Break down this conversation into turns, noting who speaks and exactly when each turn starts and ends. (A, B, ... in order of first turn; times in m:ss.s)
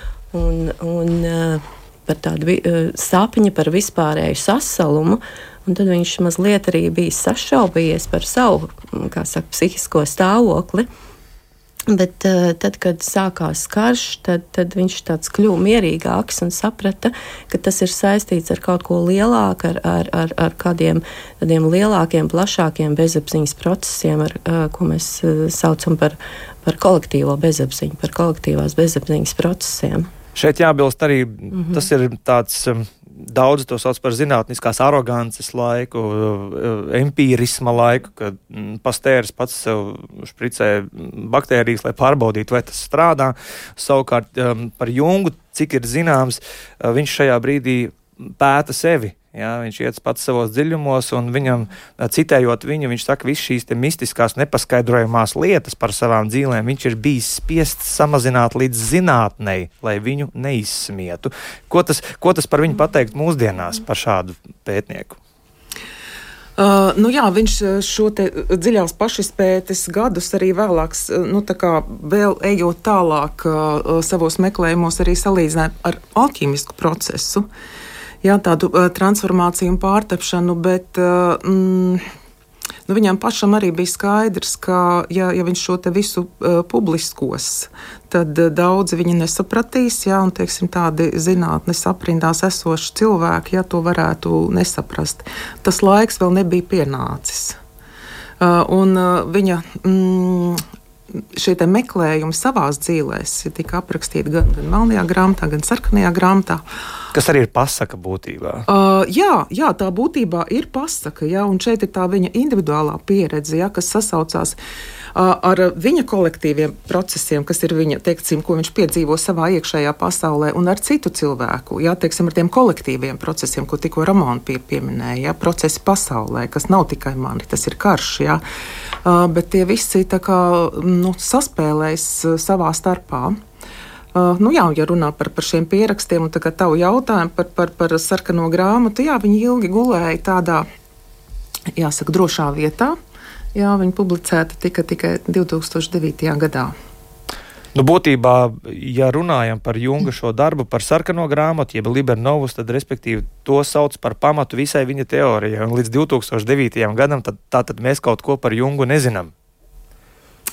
0:00.3-0:10.9 A
0:11.9-0:30.1 A
0:30.4-1:05.2 B
0:31.5-0:31.8 A
1:06.6-1:17.5 C
1:18.2-1:22.0 C
1:22.9-1:37.6 C
1:38.4-1:40.6 C
1:41.2-1:46.6 C
1:47.1-1:48.7 B
1:48.7-1:54.6 C
1:55.1-2:08.4 C
2:09.0-2:13.4 C
2:14.1-2:20.7 C
2:21.8-2:23.0 C
2:23.6-2:26.7 C
2:27.8-2:39.3 B